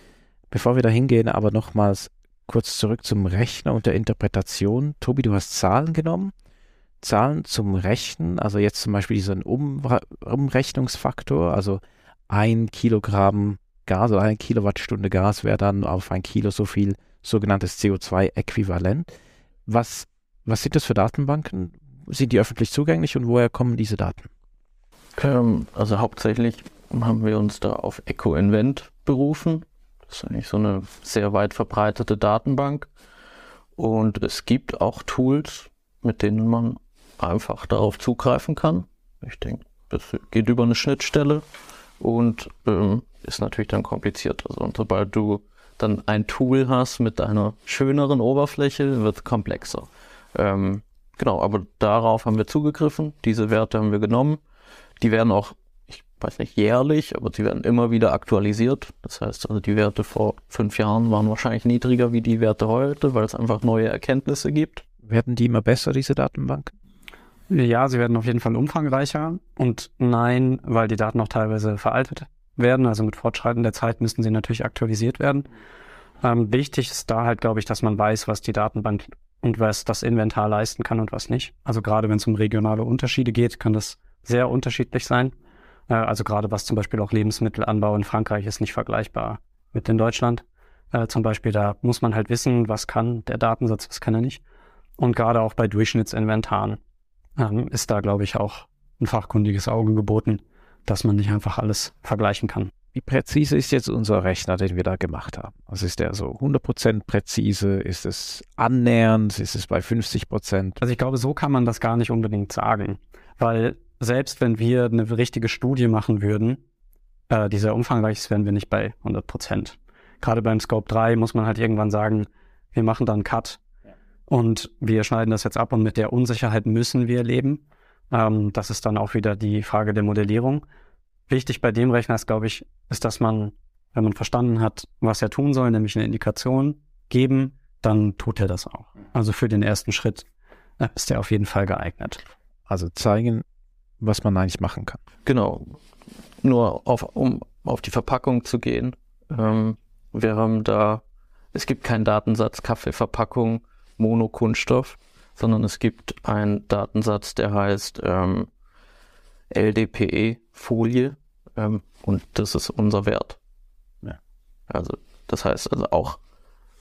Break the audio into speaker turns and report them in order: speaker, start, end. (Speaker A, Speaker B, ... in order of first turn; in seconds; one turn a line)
Speaker A: 0.5-6.3
Speaker A: 7.0-19.1
Speaker A: 19.7-24.3
Speaker B: 25.2-32.9
Speaker B: 33.8-41.5
Speaker B: 42.0-54.4
Speaker B: 55.0-64.8
Speaker A: 65.0-66.7
Speaker C: 67.5-75.5
Speaker C: 76.2-85.3
Speaker C: 85.9-94.4
Speaker C: 95.0-96.8
Speaker C: 97.4-102.7
Speaker A: 102.9-110.8
Speaker C: 110.8-116.6
Speaker C: 117.3-123.6
Speaker C: 124.3-130.6
Speaker C: 131.3-140.3
Speaker C: 140.8-142.2
Speaker A: 142.7-143.4
Speaker A: 144.0-145.0
Speaker B: 145.3-145.8
Speaker B: 146.4-151.0
Speaker B: 151.5-158.5
Speaker B: 159.5-163.4
Speaker B: 164.7-166.2